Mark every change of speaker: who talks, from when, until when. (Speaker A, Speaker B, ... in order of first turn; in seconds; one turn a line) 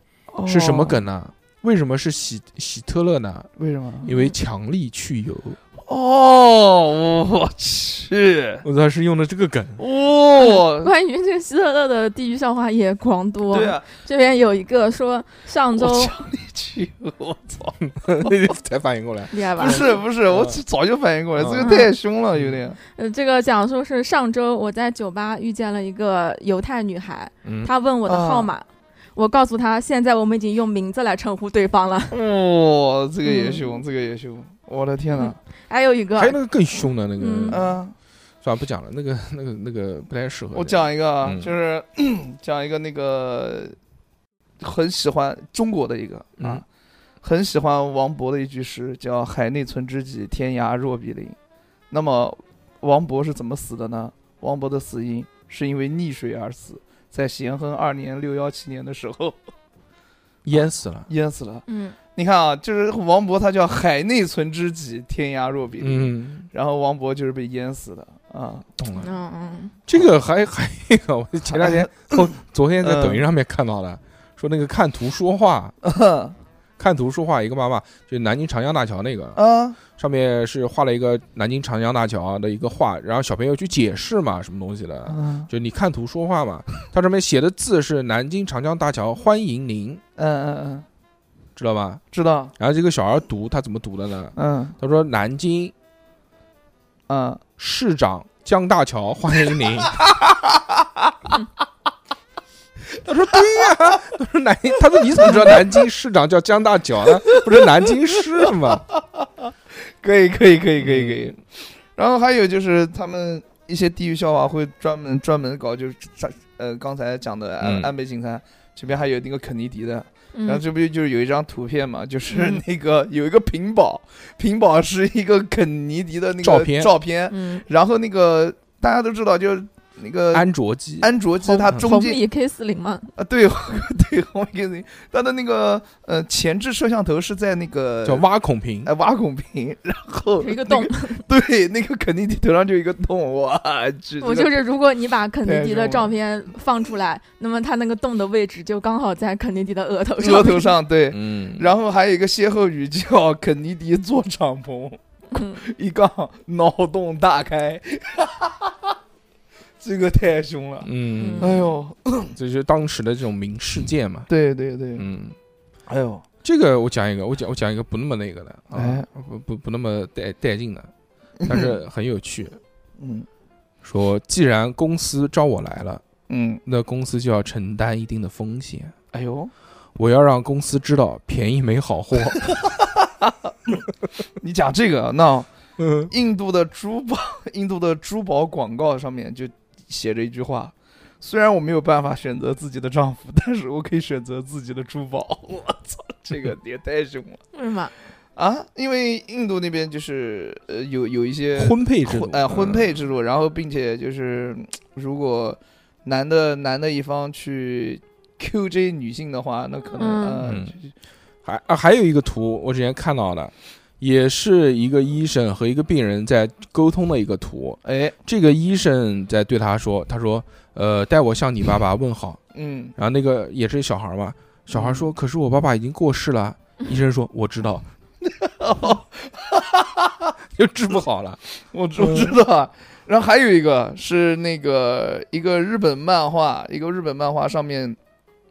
Speaker A: 0.3-1.0
Speaker B: 0.4-3.5
Speaker A: 3.6-4.1
Speaker B: 4.0-5.6
Speaker C: 4.0-4.3
Speaker A: 5.8-8.6
Speaker B: 8.6-9.8
Speaker A: 9.8-10.9
Speaker C: 10.4-16.1
Speaker A: 13.5-13.8
Speaker A: 15.8-18.3
Speaker B: 17.9-20.6
Speaker C: 19.3-19.9
Speaker A: 19.6-22.8
Speaker B: 21.4-21.7
Speaker C: 21.6-21.9
Speaker C: 22.8-32.1
Speaker B: 27.4-27.7
Speaker A: 28.1-28.5
Speaker A: 32.1-35.4
Speaker C: 33.2-33.8
Speaker C: 35.2-36.4
Speaker B: 36.2-37.8
Speaker C: 37.2-37.6
Speaker A: 37.5-37.9
Speaker B: 38.4-41.5
Speaker A: 40.5-43.8
Speaker A: 44.6-46.6
Speaker B: 46.4-46.6
Speaker A: 47.2-51.4
Speaker A: 51.9-59.4
Speaker B: 60.4-61.1
Speaker A: 61.1-68.7
Speaker C: 61.7-62.0
Speaker B: 65.8-66.5
Speaker B: 68.8-69.1
Speaker C: 69.0-69.7
Speaker B: 69.9-75.7
Speaker A: 71.5-72.2
Speaker A: 72.8-73.2
Speaker A: 75.8-76.3
Speaker B: 76.8-90.0
Speaker A: 79.3-79.8
Speaker A: 85.1-85.5
Speaker A: 90.2-90.8
Speaker B: 91.5-92.0
Speaker A: 92.1-92.5
Speaker B: 92.6-95.7
Speaker A: 94.3-94.8
Speaker A: 97.1-97.4
Speaker B: 97.6-100.0
Speaker A: 99.9-101.3
Speaker B: 103.0-108.8
Speaker A: 105.2-105.6
Speaker A: 110.0-130.5
Speaker B: 110.8-111.2
Speaker B: 117.6-117.9
Speaker C: 120.3-120.6
Speaker C: 122.3-122.6
Speaker B: 126.4-126.9
Speaker C: 127.3-127.6
Speaker B: 130.3-131.9
Speaker A: 131.0-132.2
Speaker C: 131.5-133.1
Speaker A: 133.2-138.3
Speaker B: 138.0-138.9
Speaker A: 138.8-144.5
Speaker C: 140.4-141.2
Speaker C: 144.2-150.8
Speaker A: 145.4-146.1
Speaker A: 150.2-158.9
Speaker B: 151.1-151.7
Speaker C: 155.3-155.6
Speaker A: 159.8-162.3
Speaker B: 160.8-161.6
Speaker C: 161.2-161.6
Speaker B: 162.3-164.3
Speaker A: 164.3-165.0
Speaker B: 164.9-165.3
Speaker A: 165.9-166.2
Speaker B: 166.4-170.9
Speaker A: 168.7-169.0
Speaker A: 171.4-171.8
Speaker B: 171.4-172.6
Speaker A: 173.0-173.3
Speaker B: 173.8-176.0
Speaker A: 176.3-176.6
Speaker B: 176.6-178.9
Speaker A: 179.1-179.5
Speaker B: 179.9-182.5
Speaker A: 182.8-183.8
Speaker A: 184.4-185.5
Speaker B: 185.8-186.1
Speaker A: 186.1-197.4
Speaker C: 197.5-197.9
Speaker A: 198.3-210.9
Speaker B: 201.6-203.0
Speaker C: 210.0-210.4
Speaker B: 210.4-210.7
Speaker B: 211.4-222.4
Speaker A: 217.8-218.1
Speaker A: 222.5-222.9
Speaker B: 222.9-227.9
Speaker A: 224.7-225.1
Speaker A: 228.2-230.3
Speaker B: 230.5-231.4
Speaker A: 231.7-238.0
Speaker B: 231.9-232.4